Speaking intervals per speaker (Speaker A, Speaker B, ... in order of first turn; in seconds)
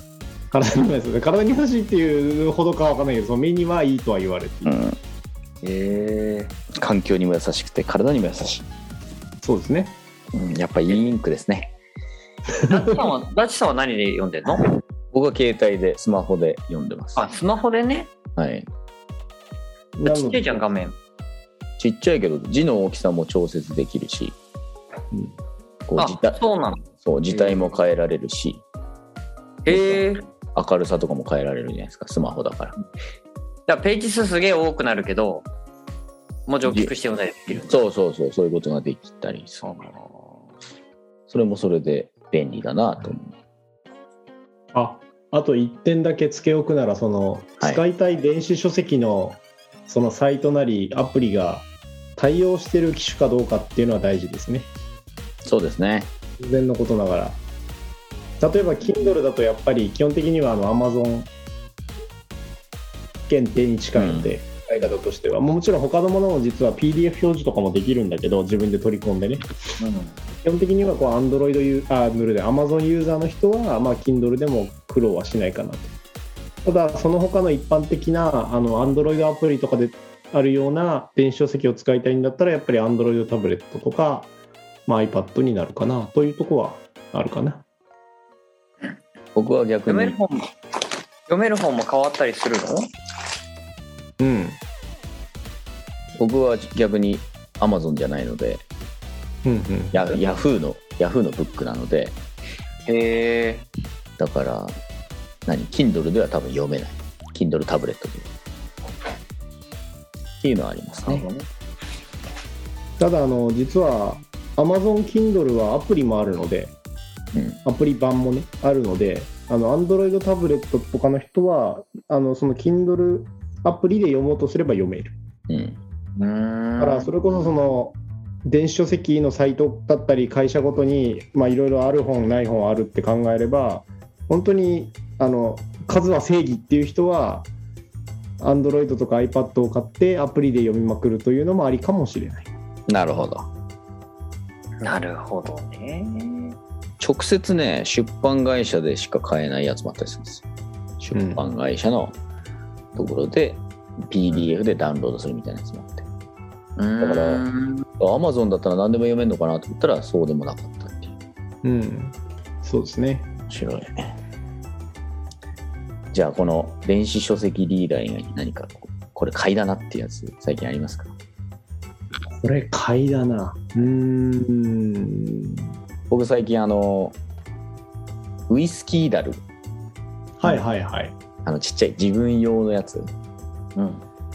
Speaker A: 0.5-4.8, 9.4-10.0, 12.7-13.1, 20.0-20.5, 44.7-54.7, 56.4-57.4, 58.4-61.3, 63.3-69.5, 70.4-75.9, 76.7-84.3, 84.9-87.6, 94.2-94.6, 99.5-100.1, 113.0-116.8, 117.7-125.1, 126.8-137.5, 138.4-142.5, 151.1-151.4, 161.6-163.3, 172.4-175.7, 180.4-181.2
Speaker B: 4.7-5.0, 6.7-8.7, 10.3-11.7, 15.1-17.2, 18.4-18.7, 21.8-24.4, 25.9-26.4, 27.0-28.6, 29.7-32.8, 36.7-36.9, 37.5-39.9, 41.3-43.3, 55.5-56.1, 64.0-64.4, 89.3-90.2, 96.2-98.7, 99.9-102.2, 104.2-104.8, 105.5-108.3, 110.4-111.3, 117.3-117.6, 125.5-125.8, 142.9-143.5, 147.0-150.4, 151.0-152.2, 152.9-156.1, 157.0-157.5, 158.0-161.1, 163.5-164.2, 166.1-171.1, 176.1-177.2, 178.5-179.4, 181.4-183.1
Speaker C: 5.6-6.5, 12.7-14.7, 17.1-18.1, 20.1-21.0, 26.0-27.7, 29.6-30.2, 33.7-35.5, 36.5-37.9, 39.6-40.2, 69.8-70.2, 89.9-90.5, 91.3-92.8, 102.9-103.7, 111.0-111.4, 126.2-127.2, 144.8-146.6, 156.8-157.9, 183.8-184.1